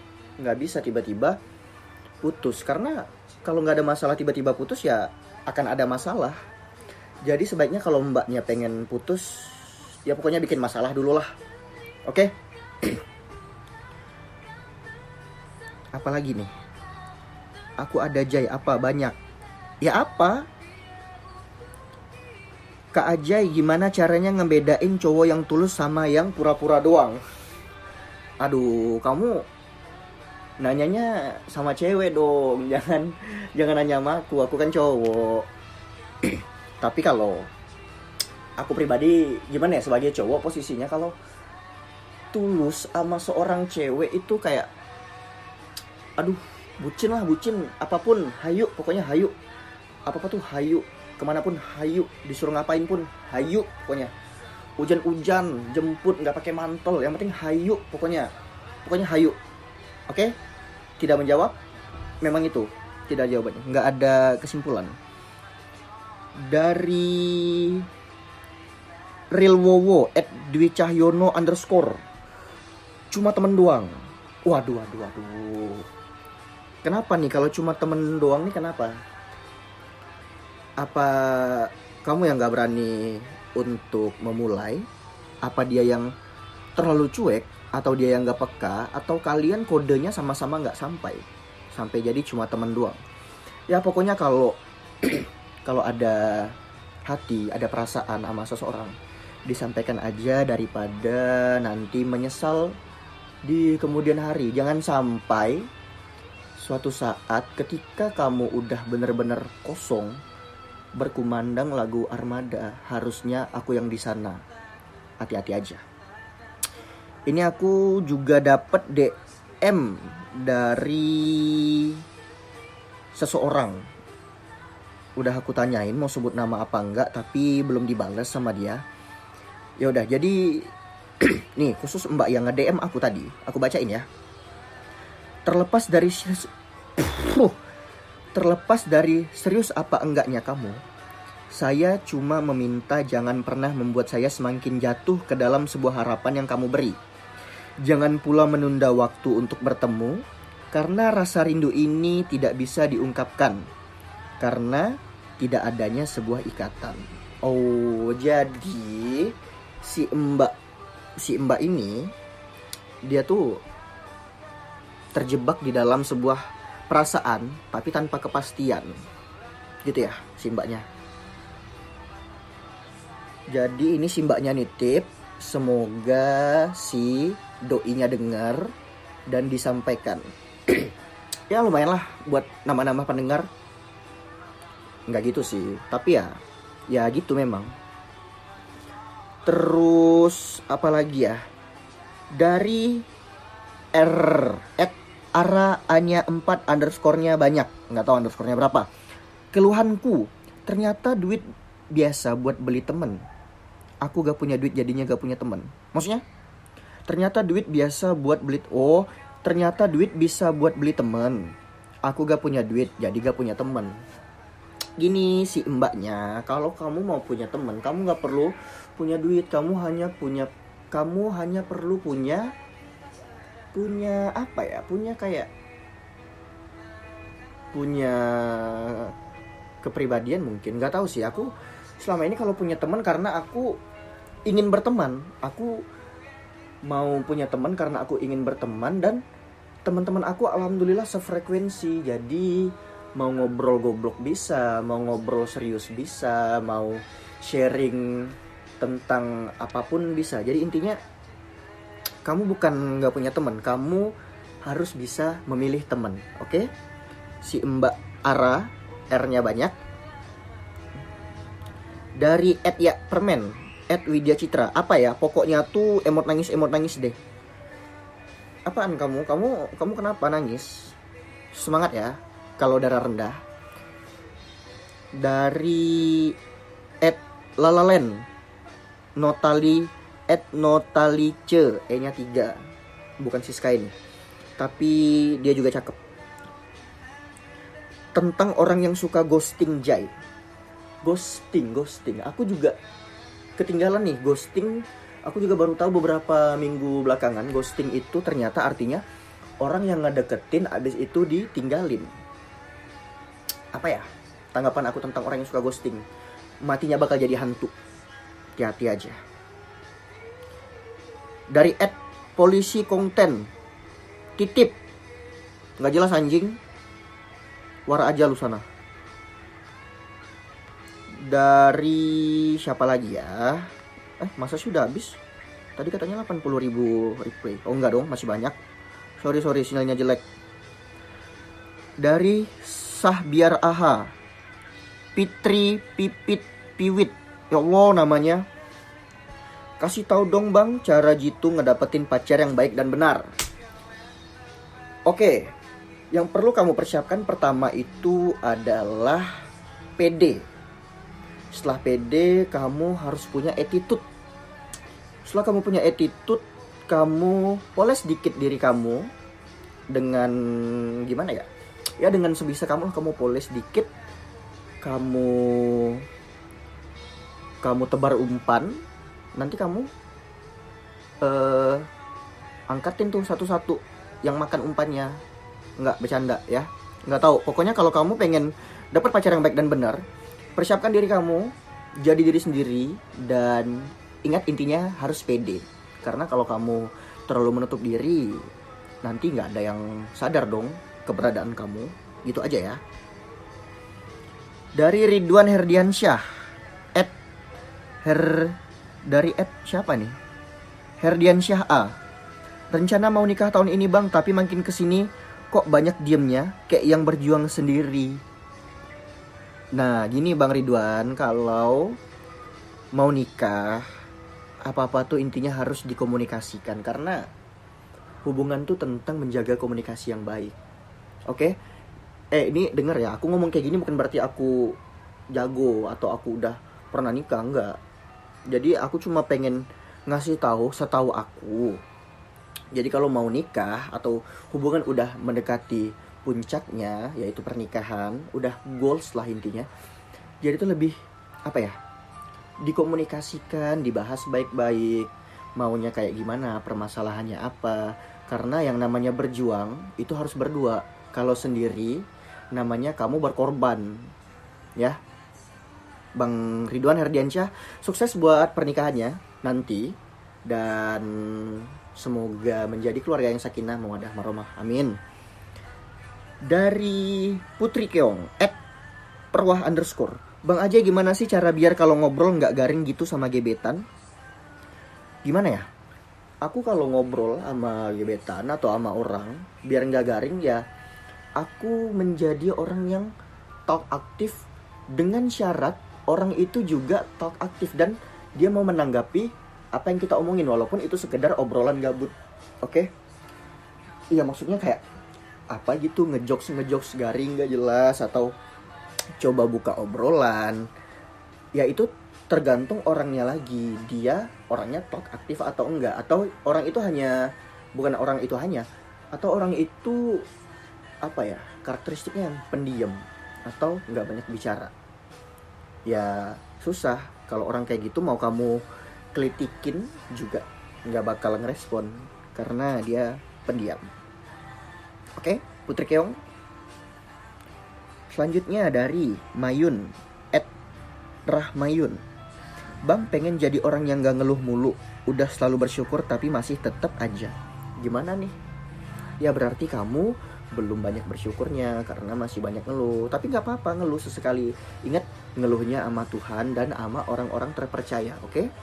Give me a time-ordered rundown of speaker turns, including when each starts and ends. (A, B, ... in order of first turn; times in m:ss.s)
0:00.4-0:01.4 A
0:02.2-0:06.4 A
0:07.2-0:11.3 A
0:12.1-0:13.0 A
0:15.9-0:16.5 A
0:17.8-0:19.2 A
0:19.8-0:20.5 A
0:22.9-0:27.2 A
0:28.4-0:29.5 A
0:30.6-0:35.5 A
0:36.3-0:37.5 A
0:38.6-0:41.2 A
0:42.3-0:44.7 A
0:46.2-0:49.4 A
0:50.1-0:54.1 A
0:54.8-0:58.3 A
0:58.8-0:59.4 A
1:00.1-1:00.4 A
1:01.0-1:01.6 A
1:02.2-1:05.0 A
1:06.4-1:07.9 A
1:09.3-1:12.0 A
1:13.1-1:15.9 A
1:16.8-1:19.0 A
1:20.8-1:24.9 A
1:25.4-1:26.1 A
1:26.8-1:33.0 A
1:33.7-1:36.5 A
1:37.1-1:39.0 A
1:39.5-1:42.8 A
1:43.4-1:45.7 A
1:46.6-1:50.2 A
1:51.0-1:54.4 A
1:55.2-1:55.8 A
1:57.3-2:02.0 A
2:03.2-2:03.8 A
2:05.2-2:08.8 A
2:09.8-2:14.1 A
2:15.5-2:17.5 A
2:18.4-2:20.8 A
2:21.5-2:27.0 A
2:27.8-2:33.7 A
2:34.4-2:40.5 A
2:41.2-2:42.1 A
2:43.0-2:43.6 A
2:45.1-2:49.0 A
2:49.8-2:50.9 A
2:53.5-2:58.7 A
2:59.3-3:00.9 A
3:01.5-3:03.5 A
3:05.1-3:07.7 A
3:09.5-3:11.4 A
3:12.3-3:13.1 A
3:13.9-3:18.9 A
3:19.5-3:23.3 A
3:24.0-3:26.2 A
3:27.1-3:34.0 A
3:35.0-3:42.5 A
3:43.7-3:45.5 A
3:47.7-3:49.1 A
3:49.8-3:53.8 A
3:54.5-3:55.8 A
3:56.9-3:59.2 A
3:59.9-4:11.0 A
4:12.2-4:14.1 A
4:14.6-4:16.7 A
4:17.4-4:19.8 A
4:22.2-4:27.2 A
4:28.7-4:31.0 A
4:31.5-4:33.4 A
4:35.2-4:36.4 A
4:37.0-4:38.3 A
4:39.2-4:42.6 A
4:43.2-4:43.9 A
4:44.6-4:46.0 A
4:48.2-4:50.1 A
4:51.0-4:52.8 A
4:53.6-4:59.0 A
4:59.6-5:02.1 A
5:03.7-5:06.0 A
5:06.6-5:07.7 A
5:08.6-5:09.2 A
5:11.5-5:13.5 A
5:14.4-5:14.8 A
5:15.8-5:16.6 A
5:17.9-5:18.6 A
5:21.1-5:25.2 A
5:25.8-5:28.6 A
5:29.2-5:30.2 A
5:32.0-5:34.1 A
5:35.2-5:38.4 A
5:39.8-5:43.3 A
5:45.1-5:45.5 A
5:46.1-5:49.3 A
5:50.0-5:50.5 A
5:51.5-5:54.0 A
5:55.3-5:59.1 A
5:59.9-6:01.5 A
6:02.0-6:03.9 A
6:04.8-6:06.0 A
6:07.6-6:08.8 A
6:09.4-6:09.9 A
6:11.2-6:11.9 A
6:12.7-6:15.2 A
6:15.8-6:20.0 A
6:20.6-6:28.5 A
6:29.0-6:32.8 A
6:34.8-6:36.2 A
6:38.0-6:40.2 A
6:41.0-6:42.0 A
6:42.7-6:48.2 A
6:49.8-6:52.0 A
6:53.0-6:53.9 A
6:54.7-6:57.2 A
6:58.2-7:00.6 A
7:01.3-7:01.6 A
7:02.3-7:04.8 A
7:05.3-7:07.8 A
7:08.5-7:11.8 A
7:12.7-7:19.7 A
7:20.4-7:21.0 A
7:21.5-7:21.8 A
7:22.6-7:34.1 A
7:36.2-7:45.0 A
7:46.4-7:48.6 A
7:49.3-7:53.8 A
7:55.2-7:55.7 A
7:56.4-8:00.6 A
8:01.4-8:03.1 A
8:03.7-8:12.9 A
8:14.1-8:14.8 A
8:15.5-8:18.3 A
8:19.2-8:20.7 A
8:21.6-8:30.3 A
8:31.0-8:34.7 A
8:35.9-8:38.6 A
8:39.1-8:43.8 A
8:45.2-8:46.2 A
8:48.1-8:50.5 A
8:51.3-8:52.0 A
8:52.8-8:58.4 A
8:59.2-9:08.5 A